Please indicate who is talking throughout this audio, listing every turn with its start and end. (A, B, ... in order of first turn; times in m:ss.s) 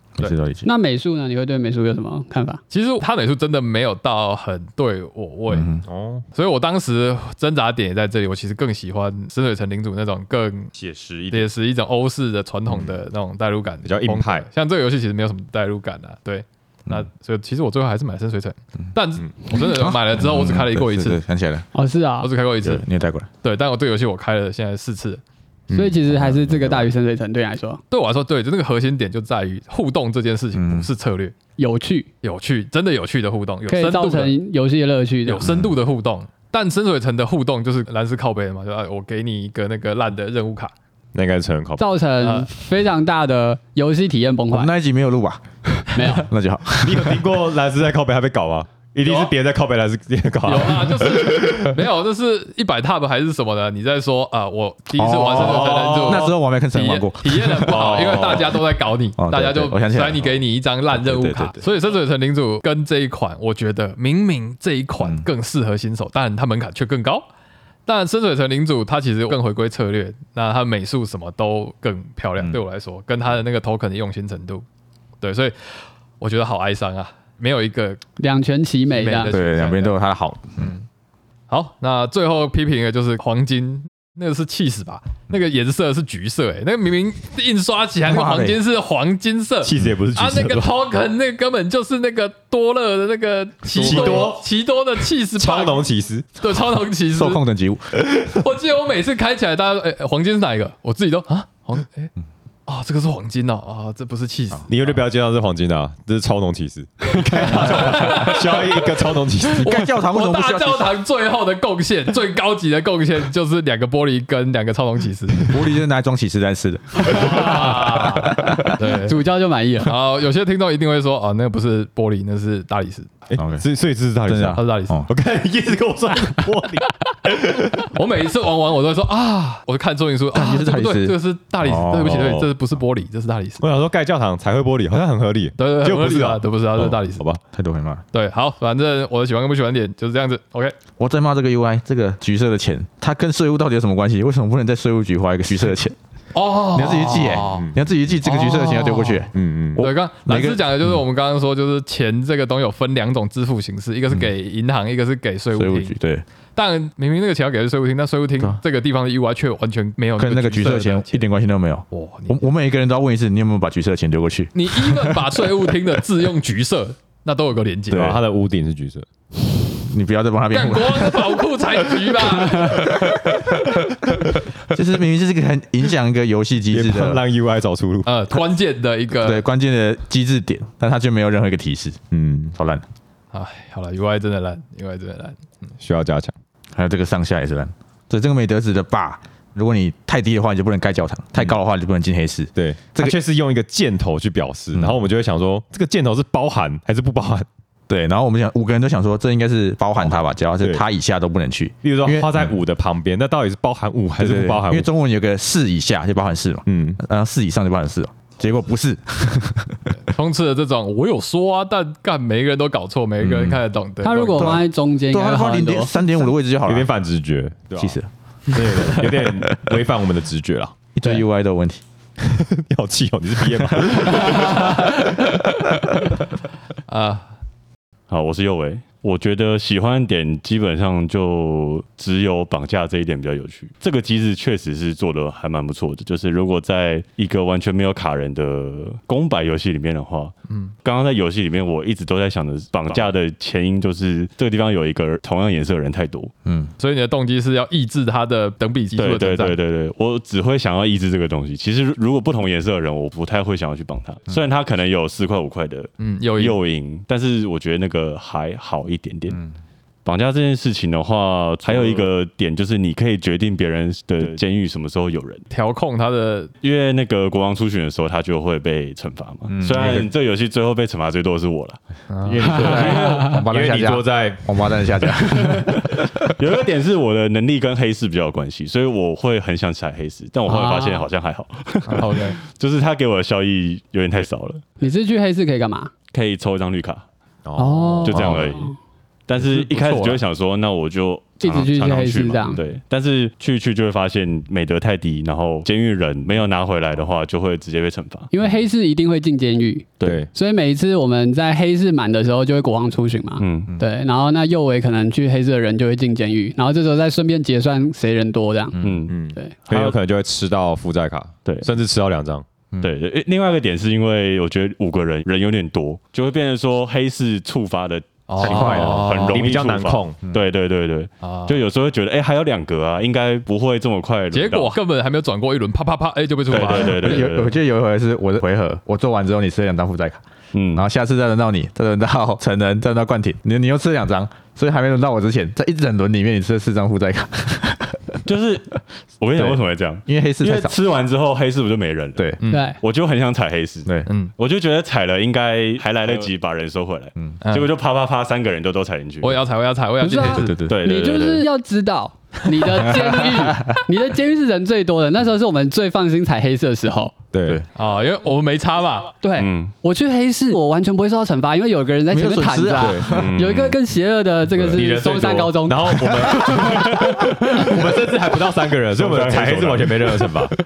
0:00.2-0:00.7 A
0:00.6-0:02.6 B
0:02.7-0:05.8 C
0:05.5-0:05.8 A
0:05.8-0:06.2 D
0:06.3-0:10.7 C
0:10.7-0:11.5 D
0:11.3-0:21.2 C
0:13.8-0:14.5 D
0:19.5-0:21.6 A
0:21.7-0:22.3 B
0:22.2-0:22.8 C
0:22.6-0:23.3 A
0:23.4-0:25.2 C
0:25.7-0:26.9 A
0:25.7-0:27.8 B
0:27.9-0:31.3 C
0:30.5-0:30.9 A
0:31.6-0:32.1 B
0:32.2-0:34.4 C
0:33.7-0:35.5 B
0:35.2-0:40.7 C
0:35.4-0:35.7 A
0:41.1-0:41.8 D
0:41.8-0:44.7 B
0:42.2-0:42.5 C
0:44.5-0:45.4 A
0:45.9-0:46.3 B
0:46.0-0:47.3 A
0:46.8-0:51.6 D
0:49.0-0:49.3 C
0:50.4-1:07.2 C
0:54.9-0:58.3 A
0:55.3-0:56.3 D
0:57.7-0:58.6 D
0:59.2-1:00.4 A
1:01.0-1:01.4 D
1:01.2-1:01.6 A
1:07.8-1:14.6 C
1:15.2-1:15.5 C
1:16.2-1:18.0 C
1:18.2-1:19.3 B
1:19.0-1:20.0 C
1:19.3-1:20.7 A
1:20.6-1:20.8 C
1:21.5-1:35.8 C
1:28.0-1:28.6 A
1:29.6-1:30.8 D
1:33.7-1:34.5 D
1:33.8-1:34.3 A
1:35.4-1:36.4 D
1:36.4-1:37.4 C
1:37.1-1:38.2 A
1:38.2-1:42.1 C
1:42.7-1:44.8 C
1:44.7-1:49.7 D
1:47.3-1:49.0 C
1:47.8-1:48.1 A
1:49.6-1:51.0 A
1:49.6-1:55.6 C
1:55.5-1:58.8 A
1:57.0-1:59.2 C
1:58.8-1:59.9 B
1:59.8-2:03.1 C
2:03.3-2:07.9 D
2:03.4-2:03.6 A
2:04.2-2:05.1 A
2:04.5-2:05.0 C
2:07.9-2:13.6 C
2:10.3-2:12.3 A
2:12.0-2:12.5 D
2:13.6-2:17.4 D
2:15.6-2:17.2 C
2:17.5-2:18.0 A
2:18.1-2:20.7 C
2:21.0-2:26.0 A
2:26.3-2:27.7 C
2:26.7-2:30.9 A
2:28.2-2:36.0 C
2:29.3-2:29.9 D
2:35.5-2:36.2 A
2:36.5-2:41.2 C
2:40.2-2:45.2 A
2:41.9-2:42.4 C
2:44.5-2:48.2 C
2:47.9-2:48.2 A
2:47.9-2:49.0 D
2:49.7-2:51.4 A
2:50.5-2:53.5 C
2:52.1-2:53.4 A
2:54.7-2:57.2 A
2:56.7-2:58.1 D
2:58.0-2:59.4 C
2:59.2-3:02.0 A
3:02.1-3:02.5 D
3:02.5-3:02.8 A
3:03.3-3:05.5 C
3:05.8-3:06.3 D
3:06.7-3:13.2 A
3:12.5-3:17.5 D
3:14.7-3:15.0 A
3:17.9-3:22.5 A
3:20.0-3:20.8 D
3:21.8-3:24.9 D
3:24.2-3:30.0 A
3:26.7-3:27.0 D
3:30.0-3:34.6 C
3:33.2-3:33.6 A
3:34.0-3:35.9 B
3:34.4-3:36.9 A
3:36.6-3:38.0 D
3:37.8-3:39.8 A
3:38.5-3:40.7 D
3:40.9-3:41.8 A
3:42.2-3:45.4 D
3:43.7-3:44.5 A
3:46.9-3:47.3 C
3:48.1-4:06.3 E
4:06.4-4:06.7 A
4:06.8-4:09.6 C
4:09.0-4:19.4 E
4:16.0-4:16.6 C
4:20.0-4:25.4 E
4:25.5-4:26.5 C
4:26.6-4:31.8 E
4:29.5-4:30.1 A
4:32.1-4:32.9 C
4:32.2-4:36.3 A
4:32.4-4:33.4 E
4:32.9-4:34.4 D
4:36.3-4:44.6 E
4:40.5-4:41.1 B
4:41.9-4:42.4 C
4:44.8-4:45.9 B
4:46.1-4:47.0 E
4:47.4-4:48.5 D
4:47.6-4:48.6 B
4:48.0-4:48.7 E
4:49.3-4:58.3 E
4:49.4-4:50.2 C
4:51.4-4:52.6 B
4:58.3-5:08.8 B
5:00.0-5:00.2 E
5:00.0-5:00.3 D
5:03.4-5:03.7 E
5:08.7-5:09.1 A
5:08.8-5:09.2 E
5:09.1-5:12.4 D
5:09.7-5:09.9 E
5:11.4-5:11.7 E
5:12.8-5:24.7 E
5:18.3-5:19.4 C
5:18.4-5:20.2 D
5:21.2-5:21.5 C
5:24.3-5:27.2 C
5:26.5-5:27.6 E
5:26.8-5:30.2 A
5:30.5-5:30.8 E
5:30.7-5:38.2 A
5:38.2-5:49.4 E
5:40.1-5:40.7 A
5:42.4-5:42.7 C
5:42.5-5:42.8 B
5:44.1-5:44.3 C
5:47.4-5:47.7 C
5:49.2-5:50.6 C
5:50.0-5:57.1 B
5:50.4-5:50.7 A
5:50.6-5:51.4 E
5:53.0-5:53.7 A
5:57.3-5:57.6 D
5:57.7-5:59.1 C
5:59.2-6:06.9 B
5:59.4-5:59.7 E
6:02.1-6:03.3 A
6:02.8-6:03.1 D
6:03.1-6:03.8 E
6:04.7-6:10.5 D
6:08.9-6:10.1 E